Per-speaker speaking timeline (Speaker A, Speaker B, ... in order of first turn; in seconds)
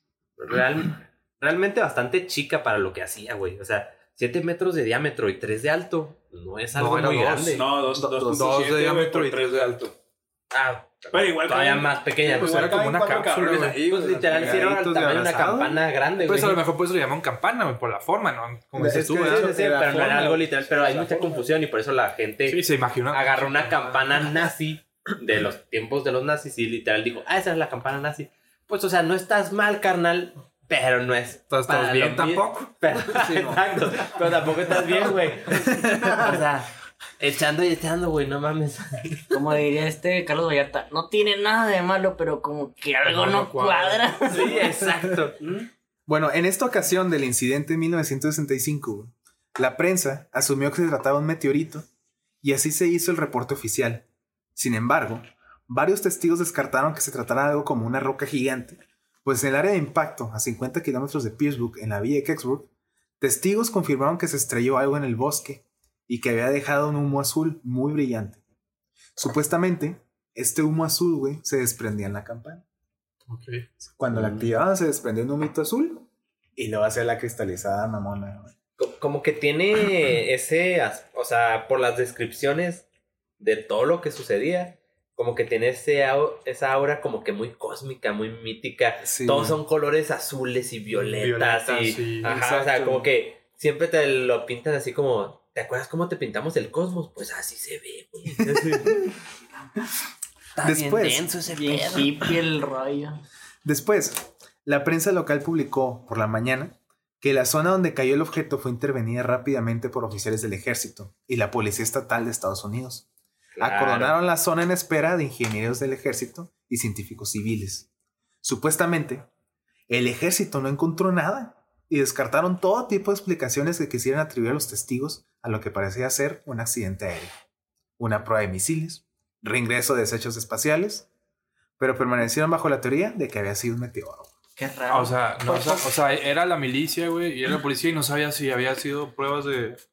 Speaker A: 0.4-7.7, 10.5-12.8, 13.8-16.6, 19.2-39.3, 44.3-45.4, 78.8-82.8, 83.4-99.0, 100.5-102.3, 113.5-114.2
Speaker B: 6.7-7.7, 8.2-9.8, 12.3-14.6, 16.2-19.6, 22.4-24.0, 31.5-32.6, 43.0-44.1, 73.3-73.7, 90.9-93.0, 134.9-139.8
Speaker C: 7.5-9.9, 11.1-14.5, 20.7-21.4, 44.3-44.7, 45.4-45.7
Speaker D: 7.9-8.5, 14.3-15.8, 18.7-20.5, 33.2-33.6, 46.1-51.9, 52.4-54.0, 54.5-62.7, 63.2-68.4, 69.2-72.6, 73.8-78.5, 89.0-89.6, 98.5-99.0, 100.6-101.3, 103.6-113.0, 113.6-117.9, 118.4-119.2, 119.9-127.3, 128.0-131.1, 131.8-134.3
Speaker E: 39.3-44.7, 101.6-103.2, 134.6-135.9